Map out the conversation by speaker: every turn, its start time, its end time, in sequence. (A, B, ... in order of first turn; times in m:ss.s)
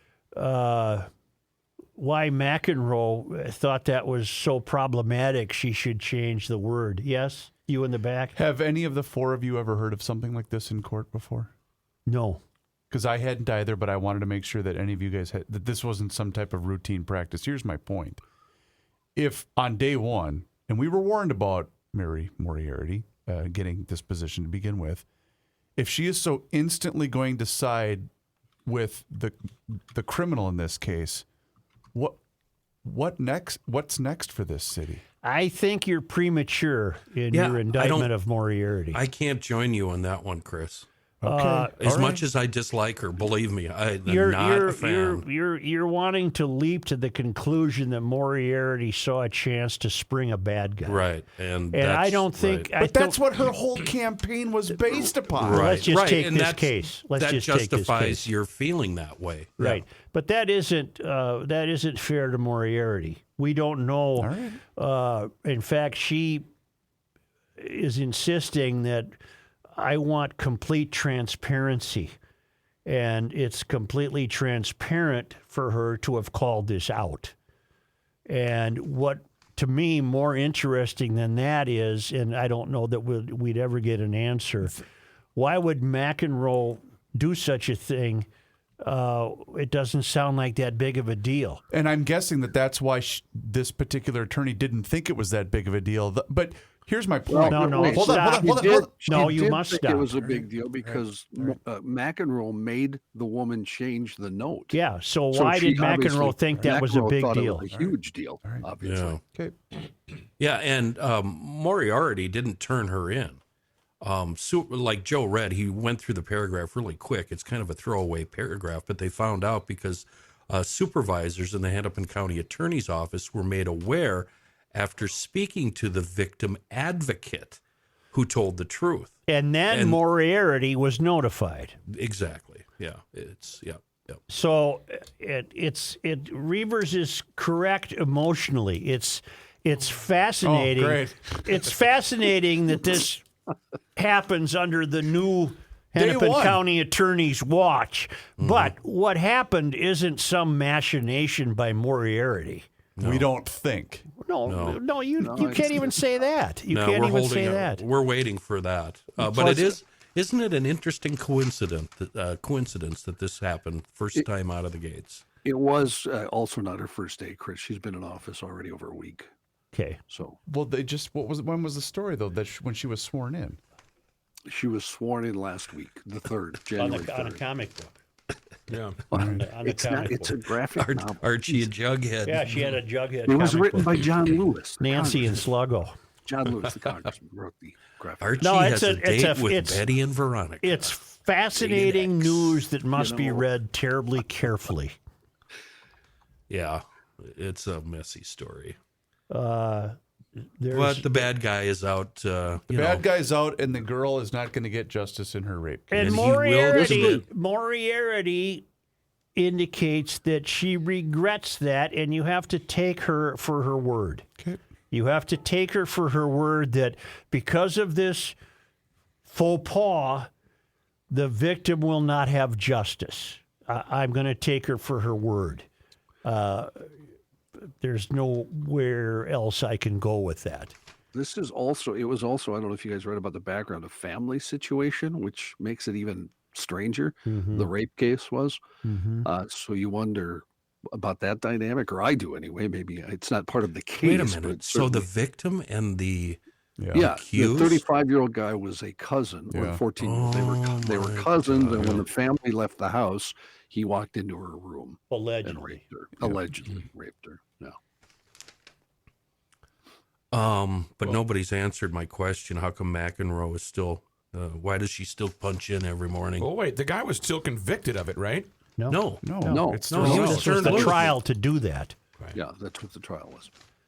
0:00.3-0:01.0 A
0:02.0-0:08.4 A
0:08.4-0:11.5 B
0:12.0-0:12.4 A
0:12.9-0:18.2 B
0:19.2-0:25.0 B
0:25.8-0:28.1 B
0:28.6-0:31.2 B
0:31.9-0:32.2 B
0:32.8-0:35.0 B
0:35.2-0:39.0 A
0:37.3-0:38.1 C
0:38.9-0:40.9 C
0:41.2-0:42.2 B
0:41.2-0:41.7 A
0:41.8-0:45.2 C
0:44.0-0:51.1 A
0:50.8-0:52.7 C
0:51.7-0:53.2 A
0:52.8-0:55.8 B
0:55.4-0:59.8 C
0:55.4-0:58.3 A
0:59.6-1:06.4 A
1:04.2-1:04.6 B
1:07.6-1:09.1 A
1:09.8-1:12.1 A
1:12.8-1:17.3 A
1:18.3-1:24.8 A
1:25.3-1:28.3 A
1:28.8-1:31.6 A
1:31.7-1:39.5 B
1:37.3-1:44.8 D
1:37.4-1:40.1 A
1:40.1-1:41.6 B
1:44.7-1:47.6 A
1:45.3-1:49.2 D
1:47.7-1:48.7 B
1:48.8-1:49.2 C
1:50.4-1:53.4 C
1:54.0-2:07.6 C
2:08.1-2:10.0 C
2:09.3-2:11.8 A
2:11.9-2:14.2 C
2:14.3-2:23.2 A
2:20.4-2:21.7 B
2:23.9-2:32.7 A
2:26.0-2:26.6 B
2:28.4-2:28.7 C
2:33.0-2:33.3 C
2:33.0-2:34.1 B
2:34.2-2:37.8 A
2:34.4-2:34.8 C
2:35.2-2:36.1 D
2:36.7-2:45.2 C
2:39.2-2:39.8 A
2:45.4-2:49.3 D
2:49.7-2:50.0 A
2:50.1-2:50.4 D
2:50.5-2:53.6 B
2:54.5-2:57.4 D
2:56.8-2:58.0 A
2:58.7-2:59.0 E
2:59.1-3:01.7 D
2:59.1-2:59.5 B
2:59.1-3:00.4 A
3:00.8-3:02.6 C
3:02.2-3:04.1 A
3:03.3-3:05.4 D
3:04.8-3:05.9 A
3:06.3-3:08.4 D
3:08.2-3:10.9 C
3:08.4-3:09.9 A
3:10.6-3:14.9 A
3:11.6-3:12.3 D
3:11.7-3:12.0 C
3:12.9-3:13.5 D
3:16.5-3:18.8 C
3:19.3-3:20.0 A
3:20.6-3:21.2 A
3:20.7-3:23.0 C
3:22.7-3:26.3 B
3:25.9-3:28.6 A
3:26.0-3:27.2 C
3:29.4-3:34.2 A
3:34.9-3:38.4 A
3:39.2-3:40.3 A
3:41.1-3:45.7 A
3:46.2-3:46.9 A
3:47.6-3:50.7 A
3:51.1-3:58.6 D
3:57.2-3:57.7 A
3:58.8-3:59.3 A
3:59.2-4:05.1 D
4:04.0-4:06.4 C
4:06.8-4:07.1 B
4:06.9-4:07.8 C
4:06.9-4:17.8 D
4:09.5-4:09.8 B
4:10.0-4:12.1 C
4:15.1-4:15.8 A
4:20.3-4:26.5 C
4:26.4-4:28.5 E
4:28.8-4:32.0 A
4:28.9-4:29.2 C
4:29.2-4:31.1 B
4:29.5-4:30.7 D
4:29.9-4:31.1 C
4:30.1-4:30.4 E
4:32.3-4:33.5 D